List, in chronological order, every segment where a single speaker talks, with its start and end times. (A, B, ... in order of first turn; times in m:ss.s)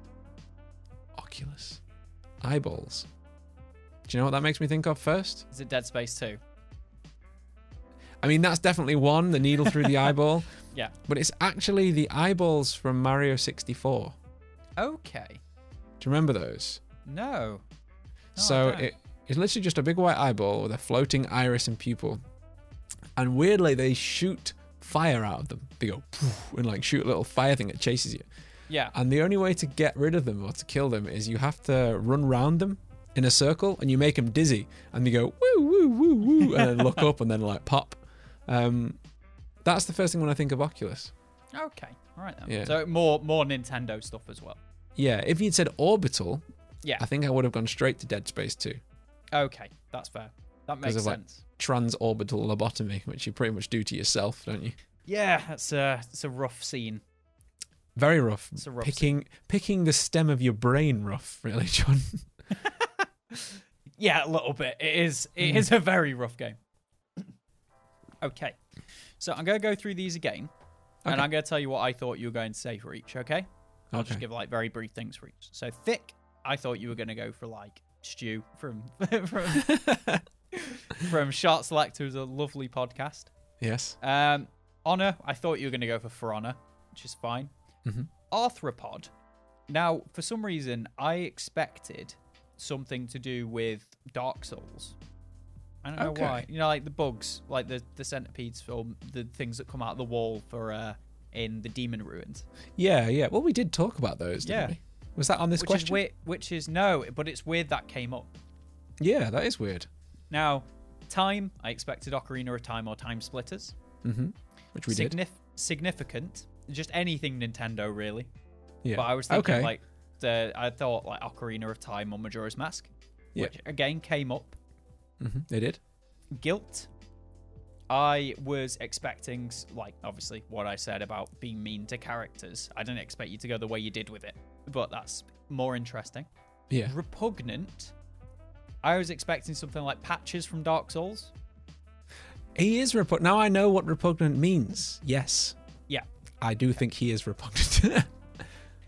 0:01.2-0:01.8 A
0:02.4-0:03.1 A
0:04.1-0:05.5 A
0:05.5-0:06.4 B
0:08.2-0:10.5 A
0:09.7-0:10.0 B
0:11.1-0:14.2 A
0:14.8-0:15.4 B
0:16.0-0:16.8 A
0:17.1-0:17.6 B
0:18.4-0:18.9 B
0:18.4-0:22.2 A
0:23.2-0:28.3 A
0:28.7-0:28.9 B
0:28.9-0:39.0 A
0:36.4-0:37.0 B
0:39.6-0:41.1 A
0:41.5-0:44.6 B
0:42.5-0:42.8 A
0:45.0-0:46.4 A
0:47.0-0:48.8 A
0:49.3-0:51.4 B
0:50.8-0:54.8 A
0:55.1-0:57.0 B
0:58.0-1:02.2 A
0:58.6-0:59.1 B
1:02.6-1:06.6 B
1:08.2-1:08.6 B
1:09.2-1:10.5 B
1:11.1-1:20.0 B
1:13.9-1:14.2 A
1:19.5-1:20.2 A
1:20.5-1:23.3 B
1:23.6-1:24.0 A
1:24.0-1:27.5 B
1:28.3-1:29.1 B
1:29.7-1:35.0 B
1:35.8-1:42.4 B
1:36.0-1:36.5 A
1:42.8-1:46.0 A
1:44.4-1:44.8 B
1:45.6-1:48.3 B
1:49.0-1:49.9 A
1:50.3-1:53.8 B
1:54.0-1:55.2 A
1:54.9-1:58.3 B
1:58.8-1:59.7 A
1:59.0-2:04.6 B
2:05.2-2:05.8 A
2:06.3-2:06.9 B
2:07.9-2:16.3 B
2:16.8-2:17.9 B
2:18.8-2:21.3 B
2:22.6-2:25.6 A
2:26.4-2:28.1 A